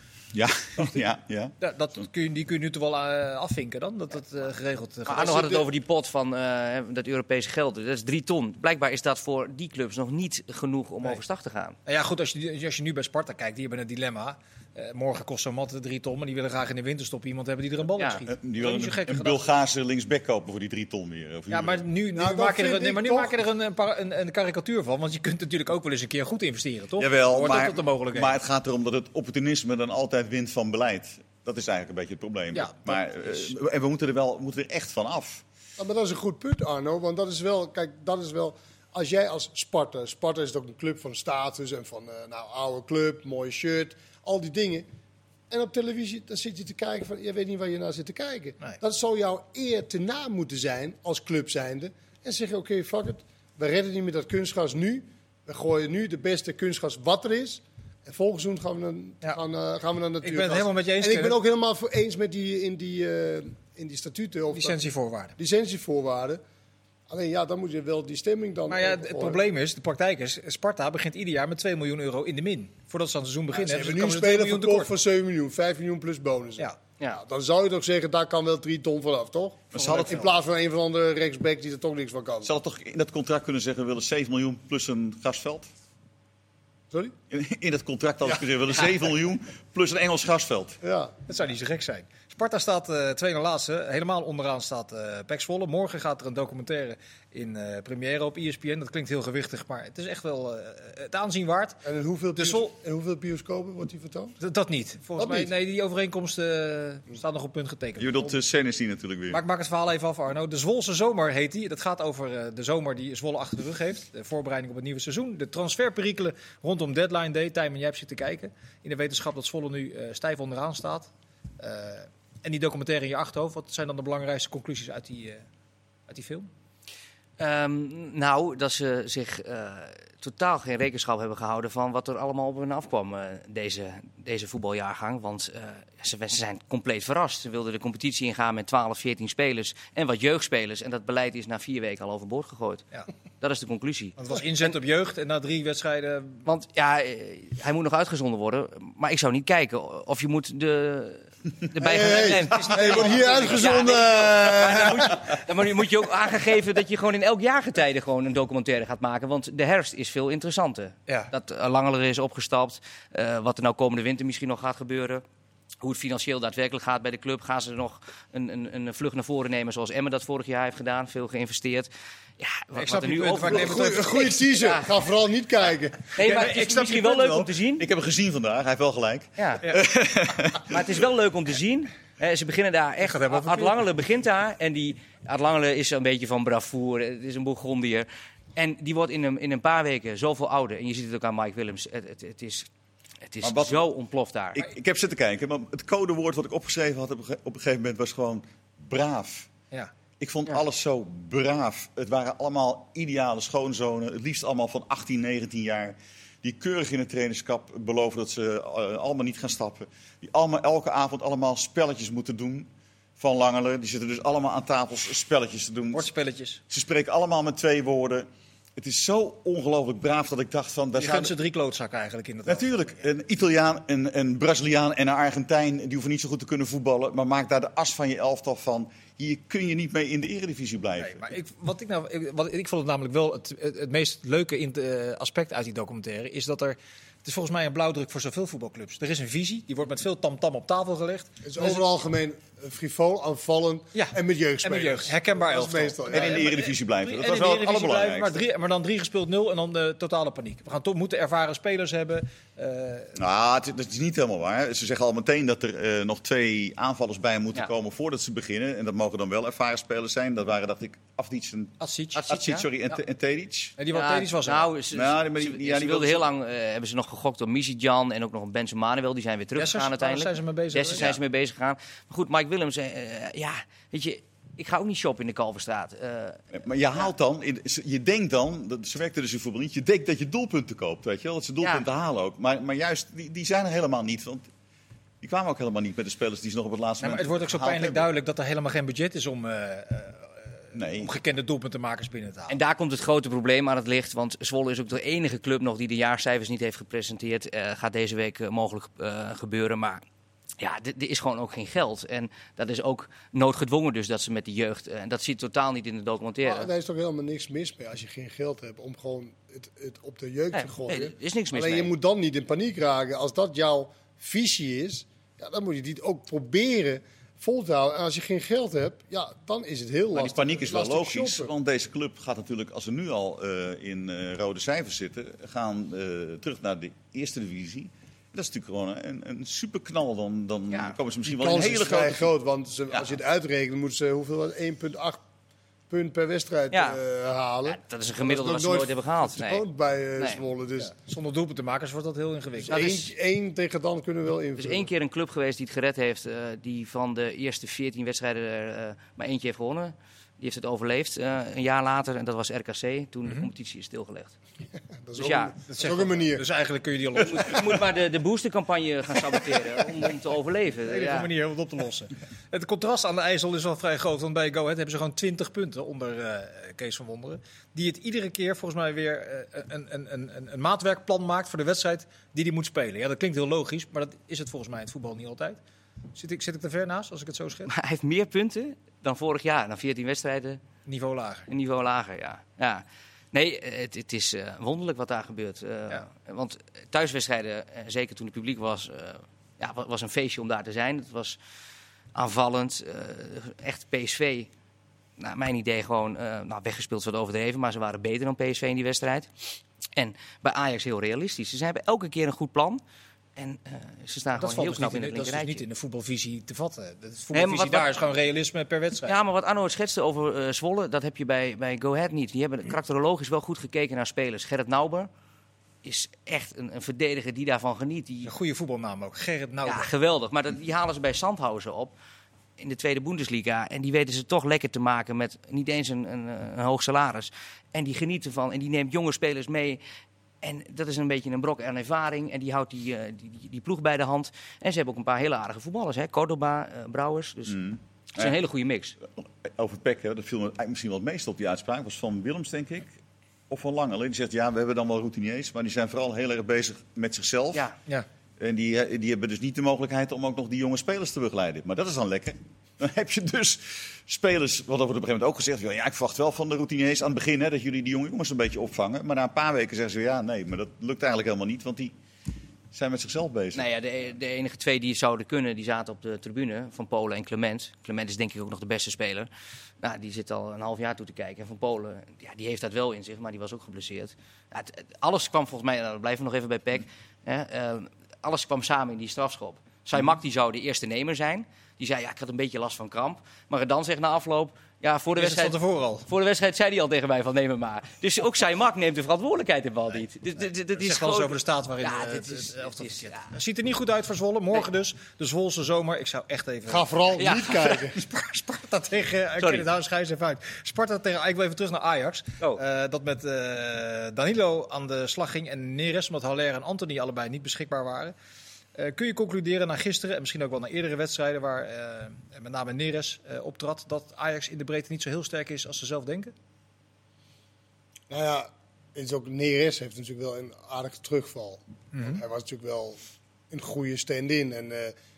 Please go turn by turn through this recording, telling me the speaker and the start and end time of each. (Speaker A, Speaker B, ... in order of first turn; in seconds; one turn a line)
Speaker A: 0.3-1.6
Speaker B: 1.6-5.6
Speaker C: 5.1-11.8
Speaker D: 5.2-5.5
Speaker B: 11.9-19.4
Speaker C: 18.0-18.2
Speaker A: 18.3-21.8
Speaker B: 21.5-28.3
Speaker D: 22.1-23.4
Speaker A: 27.0-35.4
Speaker B: 32.5-33.0
Speaker D: 35.8-44.9
Speaker D: 45.5-66.4
Speaker B: 60.2-61.4
Speaker B: 64.5-65.3
Speaker D: 67.1-69.4
Speaker B: 68.7-74.9
Speaker D: 73.5-82.5
Speaker A: 79.7-80.3
Speaker B: 79.8-80.2
Speaker A: 82.4-85.7
Speaker A: 87.3-90.8
Speaker D: 90.8-91.1
Speaker B: 91.3-101.8
Speaker D: 101.8-104.4
Speaker B: 102.4-102.7
Speaker B: 104.4-108.3
Speaker D: 105.2-105.5
Speaker A: 108.0-109.4
Speaker B: 109.3-125.5
Speaker B: 126.1-126.5
Speaker C: 127.4-142.8
Speaker C: 143.4-144.7
Speaker B: 144.2-146.4
Speaker C: 146.5-165.2
Speaker D: 151.8-155.3
Speaker B: 152.2-153.6
Speaker C: 165.8-175.0
Speaker B: 172.8-174.1
Speaker D: 173.5-177.5
Speaker C: 176.1-177.8
Speaker B: 176.3-176.9
Speaker A: 177.8-180.9
Speaker C: 179.4-179.7
Speaker C: 180.7-192.7
Speaker B: 183.0-183.8
Speaker C: 193.2-194.6
Speaker A: 193.4-193.8
Speaker A: 194.5-199.5
Speaker A: 200.2-216.1
Speaker B: 215.9-216.6
Speaker A: 216.7-221.3
Speaker B: 221.0-222.7
Speaker A: 222.5-231.3
Speaker B: 231.0-241.8
Speaker D: 241.4-246.5
Speaker B: 243.9-253.2
Speaker A: 246.1-248.4
Speaker A: 253.2-261.7
Speaker B: 261.8-262.2
Speaker C: 262.1-262.7
Speaker A: 262.3-263.8
Speaker B: 263.8-264.7
Speaker C: 263.9-276.4
Speaker A: 264.9-266.3
Speaker B: 269.6-271.1
Speaker A: 276.5-284.5
Speaker A: 285.2-288.1
Speaker B: 287.0-292.6
Speaker A: 290.7-291.1
Speaker C: 292.5-300.0
Speaker C: 300.6-306.7
Speaker D: 306.4-321.5
Speaker C: 310.5-311.9
Speaker A: 320.1-332.3
Speaker C: 330.7-331.0
Speaker D: 331.3-335.2
Speaker A: 332.9-333.2
Speaker D: 335.9-340.9
Speaker C: 336.7-337.0
Speaker C: 337.6-339.6
Speaker C: 340.2-340.4
Speaker B: 340.8-342.9
Speaker D: 342.6-344.9
Speaker C: 342.7-343.1
Speaker C: 344.6-354.4
Speaker D: 355.0-356.4
Speaker C: 355.2-355.5
Speaker B: 355.7-357.8
Speaker C: 357.2-361.3
Speaker B: 360.9-375.6
Speaker B: 376.1-377.7
Speaker C: 377.7-380.6
Speaker B: 380.9-381.5
Speaker C: 381.5-391.4
Speaker C: 392.1-394.5
Speaker C: 395.2-399.3
Speaker C: 400.0-402.8
Speaker C: 403.4-405.6
Speaker B: 404.4-409.1
Speaker C: 407.3-407.9
Speaker C: 409.1-415.1
Speaker C: 415.8-418.3
Speaker B: 418.2-419.9
Speaker C: 419.6-421.9
Speaker C: 422.6-429.8
Speaker C: 430.4-437.6
Speaker A: 437.5-438.4
Speaker C: 438.1-439.0
Speaker A: 439.1-443.0
Speaker A: 443.5-447.7
Speaker A: 448.4-461.9
Speaker A: 462.7-463.6
Speaker C: 463.5-469.3
Speaker C: 469.8-493.3
Speaker B: 485.2-486.1
Speaker B: 490.8-496.9
Speaker D: 496.7-498.0
Speaker C: 497.1-497.8
Speaker B: 497.7-508.1
Speaker C: 499.4-499.6
Speaker B: 508.8-516.3
Speaker D: 518.1-523.0
Speaker B: 521.9-522.2
Speaker D: 523.5-524.9